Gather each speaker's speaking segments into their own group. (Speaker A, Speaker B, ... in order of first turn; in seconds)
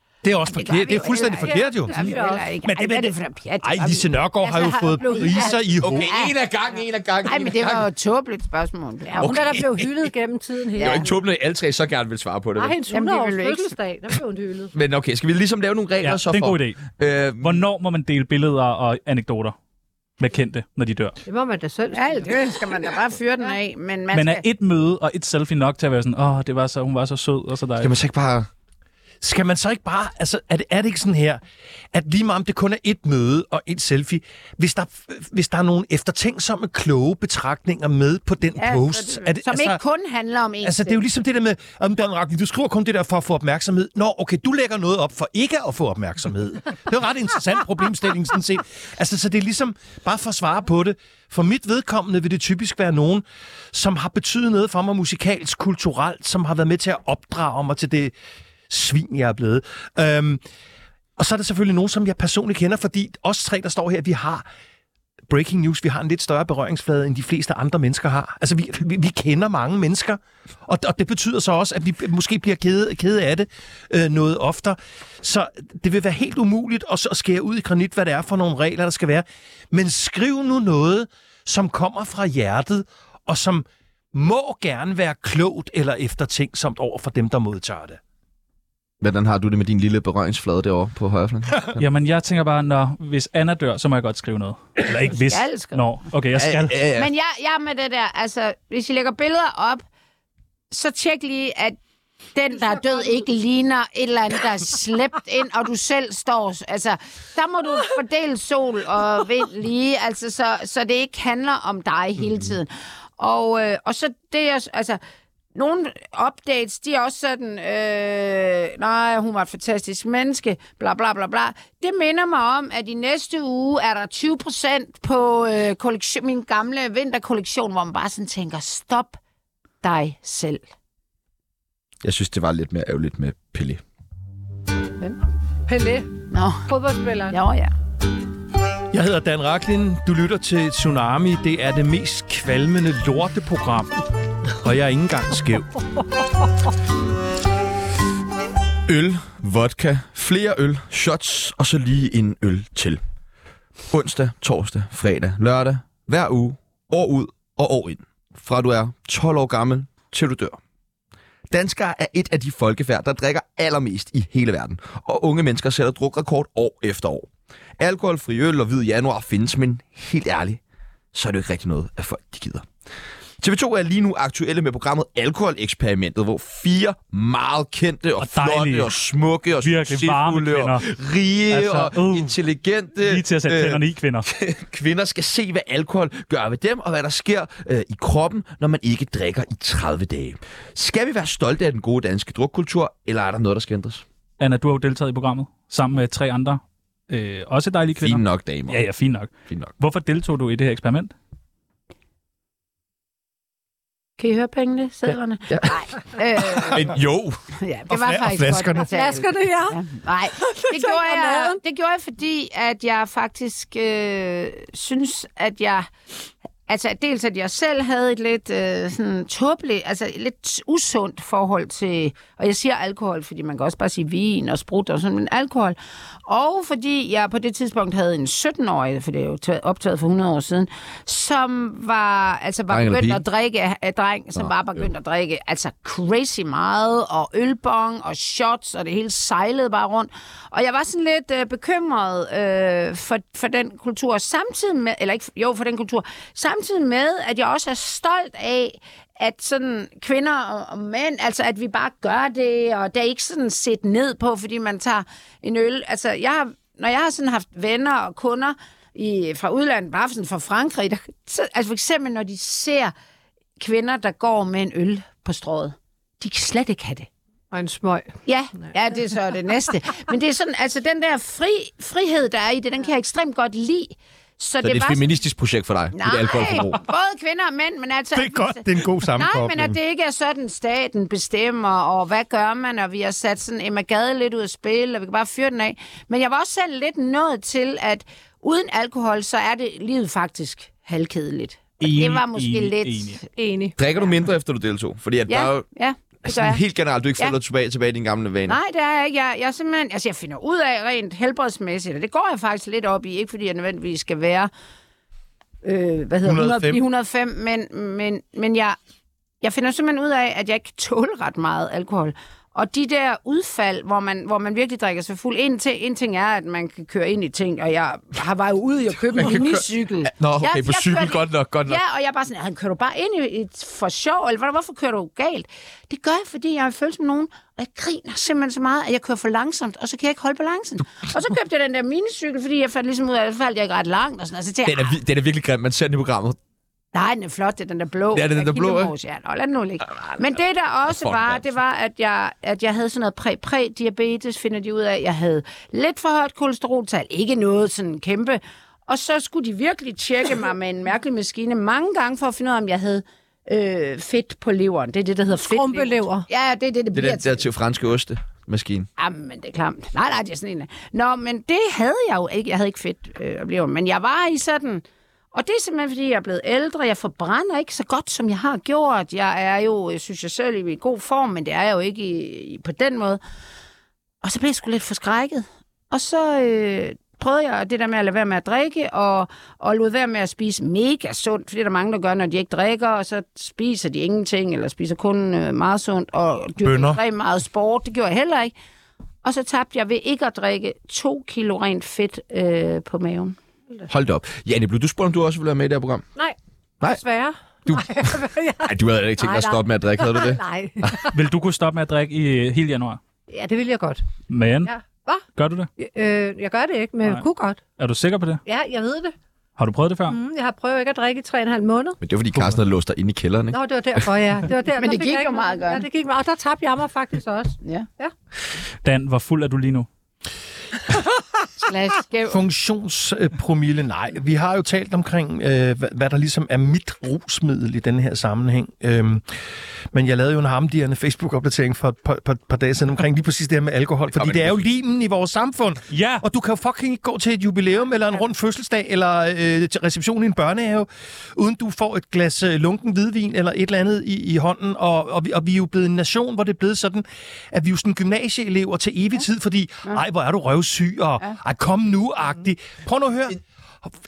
Speaker A: 0.2-2.1, 2.6-6.1, 29.2-31.4, 31.9-39.8, 40.6-58.1, 58.7-60.4, 61.2-64.5, 65.3-88.0, 138.9-144.0, 144.6-145.7, 207.9-208.9, 278.1-279.8, 306.2-306.8, 386.6-387.0, 422.3-429.2, 429.9-453.9
Speaker B: 0.5-4.1, 5.0-5.5, 6.0-6.3, 7.2-9.5, 10.8-11.0, 12.9-13.7, 21.9-24.4, 38.6-41.0, 95.1-95.8, 96.9-99.8, 100.7-101.8, 102.3-115.0, 115.5-129.2, 129.8-130.6, 136.3-136.7, 137.3-137.7, 204.2-206.9, 207.6-215.9, 216.7-225.8, 226.3-262.9, 263.6-267.1, 268.3-275.0, 275.9-278.6, 279.1-293.2, 295.3-296.6, 298.5-304.5, 305.6-308.8, 309.4-335.0, 336.9-357.4, 359.0-373.2, 374.2-388.5, 389.2-393.4, 414.8-415.8, 421.6-422.4
Speaker C: 1.4-2.5, 4.4-5.7, 9.1-11.1, 12.6-14.7, 21.2-22.5, 135.7-136.1, 136.7-137.4, 208.9-209.8, 210.3-211.6, 267.5-268.1, 293.4-293.7, 355.5-356.2, 396.9-401.1, 403.3-404.0, 404.6-405.2, 405.8-407.6, 408.4-409.1, 410.1-412.0, 413.5-418.1
Speaker D: 5.8-7.9, 9.2-9.9, 10.8-12.8, 14.7-17.6, 27.8-28.5, 89.0-91.8, 96.3-97.1, 132.0-133.8, 148.9-153.0, 153.9-160.6, 161.5-170.6, 171.1-172.7, 173.4-194.0, 198.0-198.8, 206.5-207.4, 232.7-233.2, 274.6-276.8, 293.8-295.6, 296.2-298.6, 319.1-321.8, 334.6-336.4, 338.1-338.9, 340.9-341.4, 356.9-358.9, 393.9-396.0, 397.7-401.0, 412.0-413.6, 434.1-434.5
Speaker E: 16.0-19.5, 20.2-21.2, 24.1-27.9, 91.8-96.8, 178.2-178.9, 179.6-180.8, 181.5-182.3, 183.0-184.3, 194.4-201.1, 291.8-293.2, 401.1-403.0, 404.3-404.7, 405.4-405.7, 407.8-408.4, 409.6-410.2, 418.8-419.9, 435.9-436.2